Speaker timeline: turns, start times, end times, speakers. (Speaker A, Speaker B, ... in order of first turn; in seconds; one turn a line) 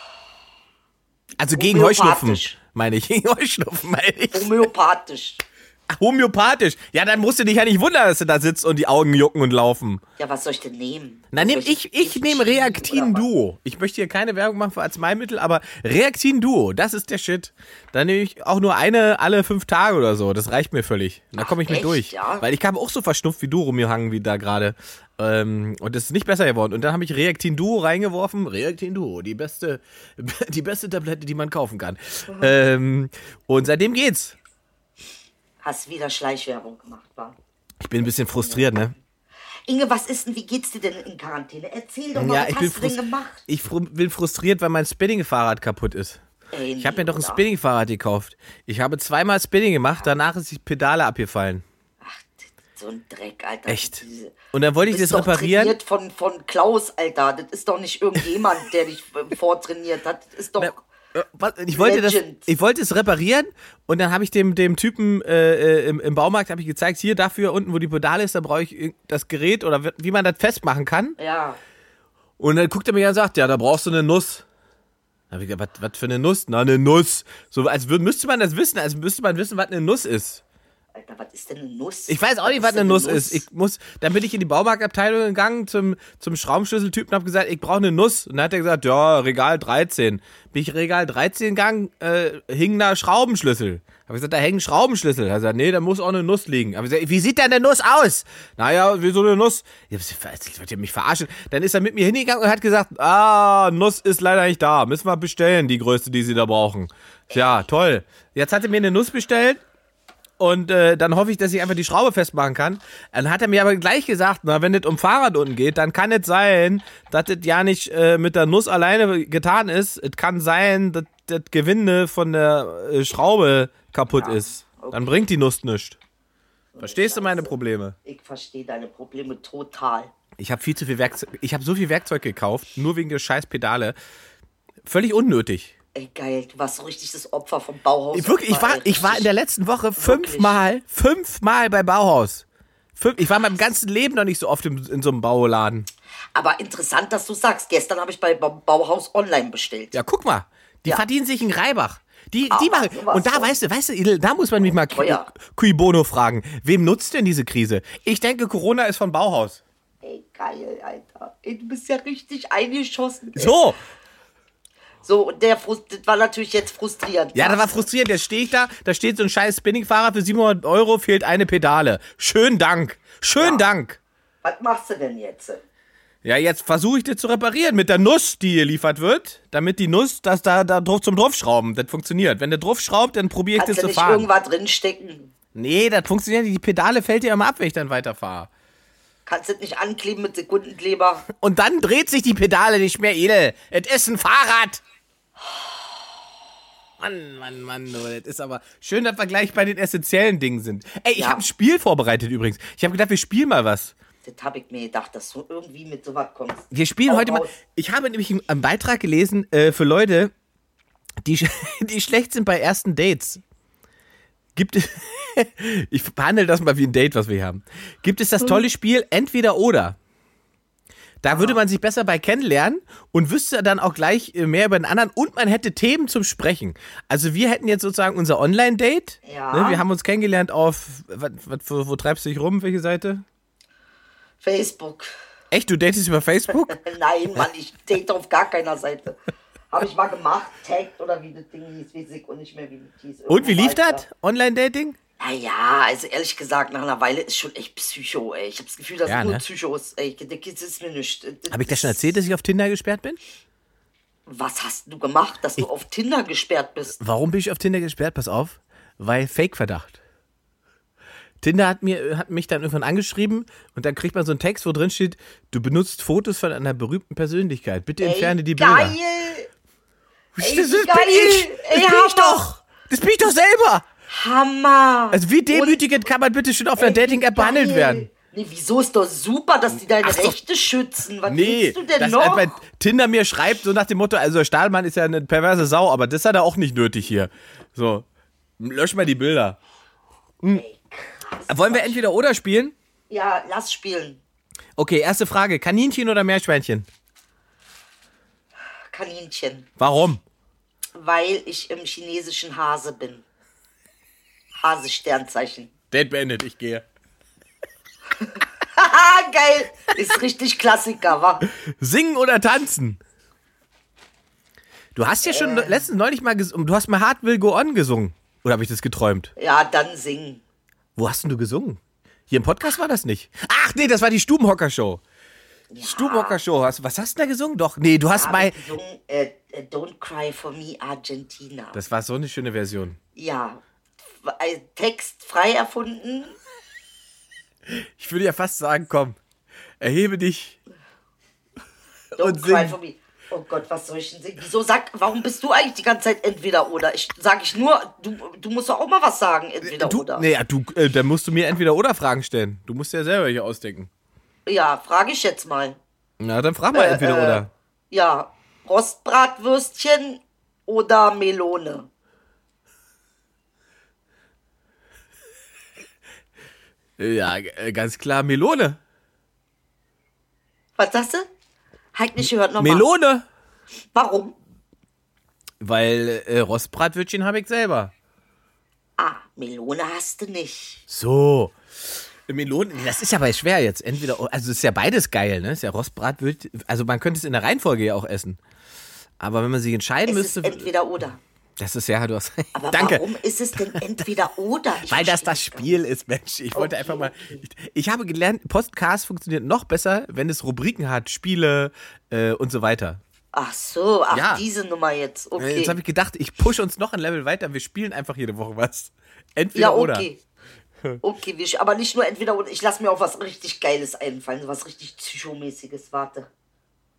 Speaker A: 1.4-4.7
Speaker B: 1.6-2.6
Speaker B: 4.3-5.4
Speaker A: 5.9-10.0
Speaker B: 10.2-13.3
Speaker A: 11.3-34.4
Speaker B: 21.4-22.5
Speaker B: 35.6-37.4
Speaker A: 37.8-38.9
Speaker B: 38.4-38.6
Speaker B: 39.7-43.4
Speaker A: 42.1-46.2
Speaker B: 46.5-47.4
Speaker A: 46.8-51.6
Speaker B: 52.0-60.8
Speaker A: 53.7-55.8
Speaker A: 60.6-71.2
Speaker B: 61.7-62.5
Speaker B: 71.2-71.6
Speaker A: 72.4-74.5
Speaker A: 75.3-80.4
Speaker B: 80.9-83.5
Speaker A: 82.1-109.6
Speaker B: 107.3-107.6
Speaker A: 110.4-126.0
Speaker B: 124.2-125.1
Speaker B: 126.7-127.5
Speaker A: 126.8-128.0
Speaker B: 128.1-130.1
Speaker A: 130.4-134.0
Speaker A: 134.8-135.7
Speaker B: 135.9-139.3
Speaker A: 138.1-145.9
Speaker B: 140.0-140.6
Speaker B: 146.3-150.0
Speaker A: 149.9-159.6
Speaker B: 152.5-153.6
Speaker B: 154.6-155.3
Speaker B: 160.0-163.6
Speaker A: 163.4-163.8
Speaker B: 165.0-167.9
Speaker A: 167.3-174.0
Speaker B: 173.4-173.7
Speaker B: 174.4-175.6
Speaker A: 176.2-184.3
Speaker B: 183.6-185.3
Speaker A: 185.5-188.5
Speaker B: 189.3-191.3
Speaker A: 191.3-194.8
Speaker A: 197.0-203.9
Speaker B: 201.2-201.4
Speaker B: 204.2-207.6
Speaker A: 206.7-210.3
Speaker A: 211.2-213.4
Speaker A: 214.6-220.0
Speaker A: 221.2-233.2
Speaker B: 221.3-221.6
Speaker B: 229.2-229.8
Speaker B: 234.4-235.1
Speaker A: 235.5-236.8
Speaker B: 236.7-239.2
Speaker B: 239.7-244.1
Speaker A: 243.3-245.0
Speaker B: 245.2-252.1
Speaker A: 249.1-249.4
Speaker A: 251.5-253.2
Speaker B: 254.3-257.0
Speaker A: 257.0-260.0
Speaker A: 261.4-269.0
Speaker B: 268.0-269.5
Speaker A: 270.4-273.9
Speaker B: 270.4-272.5
Speaker B: 274.1-275.8
Speaker A: 275.1-278.1
Speaker B: 276.8-282.6
Speaker A: 280.0-280.4
Speaker A: 281.3-288.1
Speaker A: 288.6-289.6
Speaker B: 290.5-292.0
Speaker A: 291.5-292.8
Speaker B: 293.1-294.2
Speaker A: 294.8-296.9
Speaker B: 298.9-299.7
Speaker A: 299.8-300.2
Speaker B: 300.9-303.2
Speaker B: 304.6-305.7
Speaker A: 305.9-306.9
Speaker B: 308.2-311.5
Speaker A: 311.5-313.0
Speaker A: 314.9-319.3
Speaker B: 315.2-315.8
Speaker B: 319.4-320.4
Speaker A: 321.0-325.0
Speaker B: 325.7-326.4
Speaker A: 325.8-328.6
Speaker B: 328.1-331.8
Speaker A: 331.7-333.0
Speaker B: 333.2-333.6
Speaker B: 334.2-336.4
Speaker A: 337.7-339.2
Speaker A: 339.8-340.6
Speaker A: 342.1-342.8
Speaker B: 342.2-350.3
Speaker A: 349.6-353.9
Speaker B: 354.5-355.8
Speaker A: 356.2-357.5
Speaker B: 356.7-361.9
Speaker A: 367.0-368.8
Speaker B: 370.8-371.3
Speaker B: 371.9-372.9
Speaker A: 372.6-373.2
Speaker B: 373.9-374.4
Speaker A: 375.6-377.9
Speaker B: 379.0-380.9
Speaker A: 380.9-381.6
Speaker A: 382.3-388.4
Speaker A: 389.2-390.7
Speaker B: 390.1-391.2
Speaker A: 391.6-393.0
Speaker B: 392.6-395.7
Speaker A: 394.9-403.0
Speaker B: 396.5-397.4
Speaker B: 403.3-405.8
Speaker A: 404.1-404.4
Speaker A: 405.4-410.1
Speaker B: 409.5-410.2
Speaker B: 411.0-416.3